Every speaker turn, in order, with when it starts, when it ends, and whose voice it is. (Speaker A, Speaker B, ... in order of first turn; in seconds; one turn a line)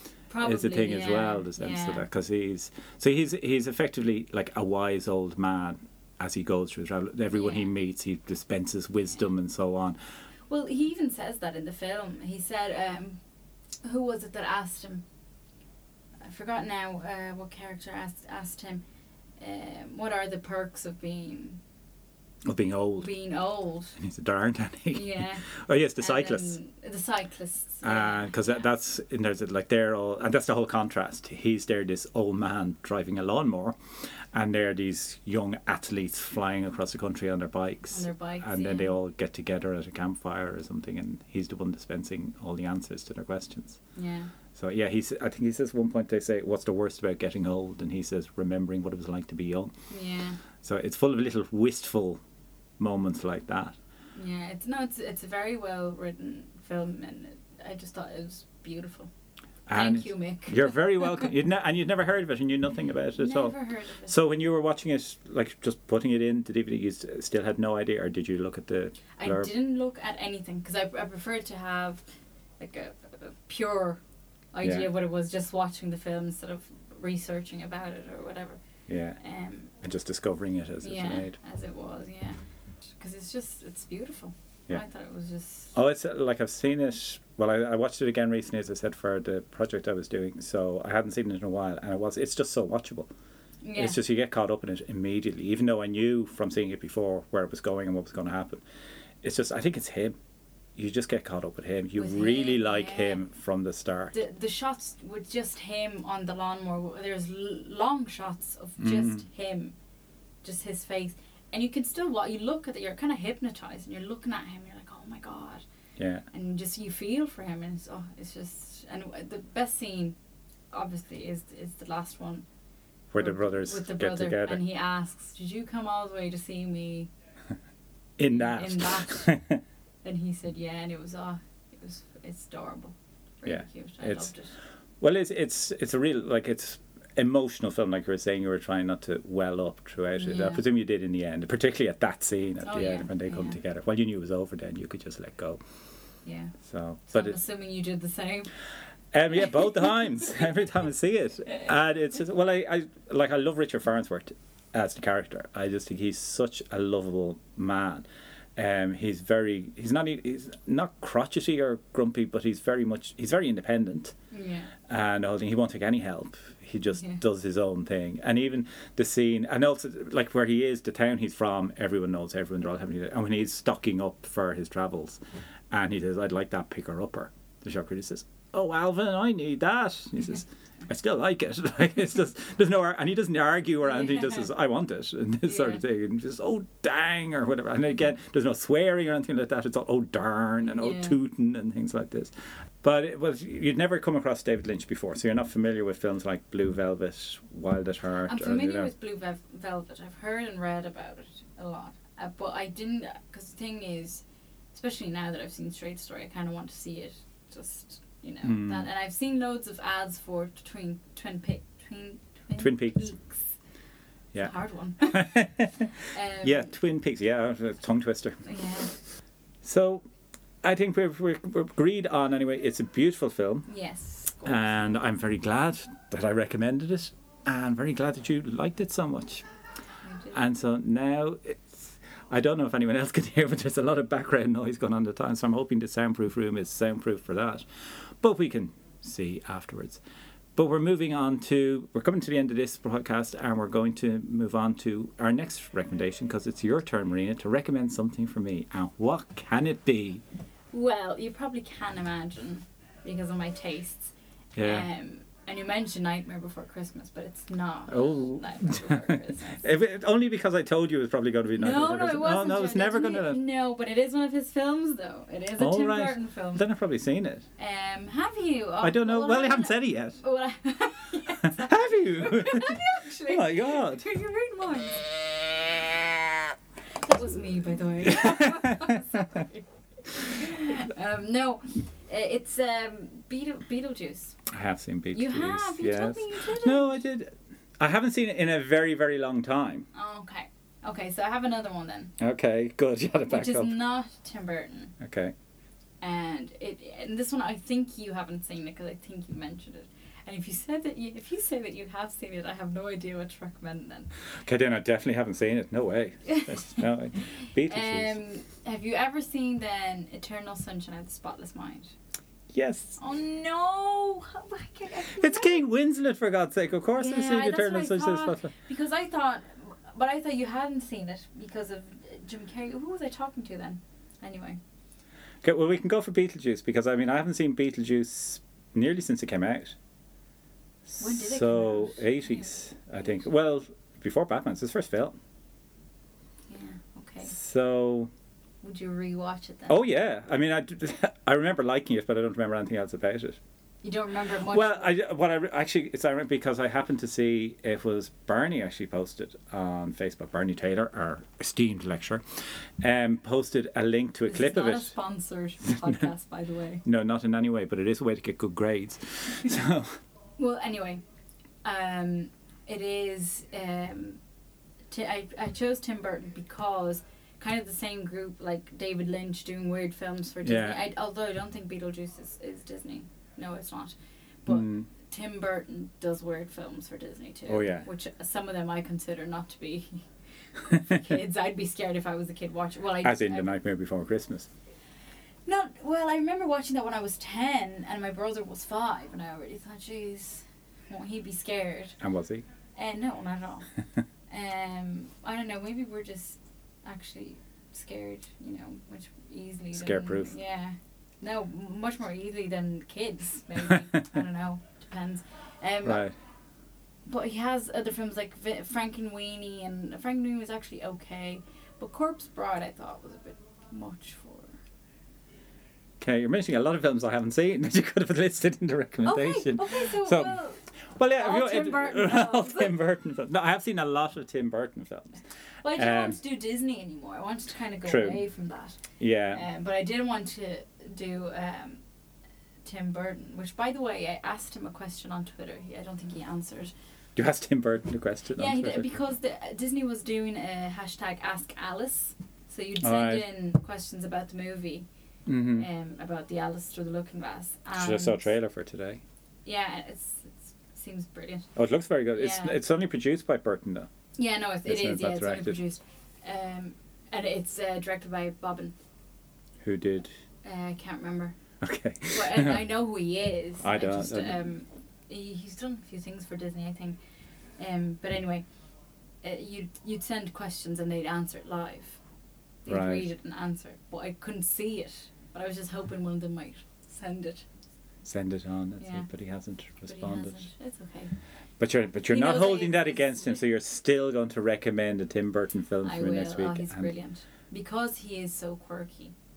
Speaker A: 0.3-2.0
Speaker B: 0.4-10.0
Speaker A: 7.3-7.7
Speaker A: 10.5-13.2
Speaker A: 13.8-15.0
Speaker A: 16.2-18.8
Speaker A: 19.4-21.6
Speaker B: 22.4-23.1
Speaker A: 23.0-24.0
Speaker B: 24.0-26.6
Speaker A: 24.9-25.4
Speaker A: 26.0-28.5
Speaker B: 27.8-33.8
Speaker B: 34.3-43.8
Speaker A: 37.9-38.9
Speaker A: 44.0-44.3
Speaker B: 44.5-49.7
Speaker A: 49.9-50.4
Speaker B: 50.6-52.2
Speaker B: 52.8-53.7
Speaker A: 54.1-59.1
Speaker B: 59.7-69.5
Speaker A: 59.7-61.2
Speaker A: 63.2-64.1
Speaker A: 69.2-72.0
Speaker A: 72.6-74.0
Speaker A: 74.5-78.6
Speaker B: 74.6-74.9
Speaker B: 78.9-79.2
Speaker A: 79.2-79.7
Speaker B: 79.8-81.3
Speaker A: 80.8-85.7
Speaker B: 85.7-93.1
Speaker A: 93.6-94.0
Speaker B: 93.7-98.6
Speaker B: 99.2-100.2
Speaker B: 100.8-104.2
Speaker A: 102.0-103.2
Speaker A: 104.1-109.7
Speaker B: 108.8-109.2
Speaker A: 110.4-115.6
Speaker B: 116.0-116.2
Speaker A: 116.3-120.2
Speaker A: 120.7-122.4
Speaker B: 123.1-124.6
Speaker A: 123.2-127.1
Speaker B: 128.2-129.6
Speaker A: 128.3-129.3
Speaker A: 130.0-134.5
Speaker B: 133.4-134.3
Speaker B: 135.0-145.6
Speaker A: 140.1-140.6
Speaker A: 142.6-143.6
Speaker A: 146.2-146.5
Speaker B: 146.6-147.4
Speaker A: 147.1-148.5
Speaker B: 149.1-164.1
Speaker A: 164.3-164.7
Speaker B: 164.9-198.9
Speaker A: 183.9-184.5
Speaker A: 185.4-185.8
Speaker A: 190.6-191.2
Speaker A: 198.2-213.5
Speaker B: 208.4-208.9
Speaker B: 212.6-213.1
Speaker B: 214.3-215.9
Speaker A: 214.4-215.3
Speaker A: 216.0-216.7
Speaker B: 216.4-218.4
Speaker A: 218.4-218.9
Speaker B: 219.6-220.0
Speaker B: 220.6-223.7
Speaker A: 223.7-224.7
Speaker B: 224.4-229.4
Speaker A: 230.0-230.4
Speaker B: 230.3-237.7
Speaker B: 238.2-240.0
Speaker B: 240.6-250.2
Speaker A: 250.7-259.7
Speaker B: 254.6-254.9
Speaker B: 257.9-263.4
Speaker A: 261.5-266.6
Speaker B: 265.6-267.4
Speaker A: 267.6-275.1
Speaker B: 268.8-270.2
Speaker B: 271.4-274.1
Speaker A: 277.0-284.4
Speaker B: 278.0-278.9
Speaker B: 284.5-289.9
Speaker A: 285.1-287.0
Speaker A: 289.9-292.1
Speaker B: 292.2-293.8
Speaker A: 293.3-294.9
Speaker B: 295.0-295.3
Speaker A: 296.0-304.1
Speaker B: 304.4-308.2
Speaker A: 306.3-311.9
Speaker B: 312.5-313.0
Speaker A: 313.0-315.6
Speaker B: 315.1-318.5
Speaker A: 316.9-324.6
Speaker B: 325.4-329.8
Speaker B: 330.9-335.1
Speaker A: 331.0-332.5
Speaker A: 336.5-337.3
Speaker B: 337.3-338.1
Speaker A: 338.6-339.8
Speaker B: 339.7-343.4
Speaker A: 343.8-344.9
Speaker B: 344.4-352.2
Speaker B: 352.8-354.9
Speaker A: 354.3-356.8
Speaker B: 355.7-356.1
Speaker B: 356.8-360.0
Speaker A: 360.4-361.0
Speaker A: 361.6-364.2
Speaker A: 364.9-380.0
Speaker B: 370.4-370.9
Speaker B: 374.5-374.9
Speaker B: 377.5-377.8
Speaker A: 380.6-383.5
Speaker B: 383.0-384.5
Speaker A: 385.4-392.0
Speaker B: 392.0-392.4
Speaker A: 392.8-393.7
Speaker A: 394.3-406.1
Speaker B: 399.7-400.3
Speaker B: 405.8-406.1
Speaker A: 407.1-414.5
Speaker B: 416.0-420.4
Speaker A: 419.0-420.6
Speaker B: 420.9-425.2
Speaker A: 421.1-422.7
Speaker A: 425.6-428.8
Speaker B: 425.8-426.2
Speaker B: 427.8-428.2
Speaker B: 429.0-429.4
Speaker A: 429.3-431.8
Speaker A: 432.6-436.7
Speaker B: 437.1-438.9
Speaker A: 438.3-444.9
Speaker B: 442.8-443.3
Speaker B: 445.2-445.7
Speaker A: 445.5-448.3
Speaker B: 447.7-449.0
Speaker A: 449.4-451.5
Speaker B: 451.6-453.9
Speaker A: 452.1-452.6
Speaker A: 454.2-458.7
Speaker B: 454.6-455.6
Speaker B: 459.6-460.1
Speaker A: 460.4-461.3
Speaker B: 461.6-462.7
Speaker A: 462.1-467.0
Speaker B: 463.6-464.5
Speaker A: 467.6-468.4
Speaker A: 469.2-472.0
Speaker A: 472.6-477.4
Speaker B: 472.7-473.1
Speaker B: 478.0-480.4
Speaker A: 478.8-479.1
Speaker A: 479.9-481.1
Speaker B: 481.6-486.9
Speaker A: 482.1-483.4
Speaker A: 485.8-489.1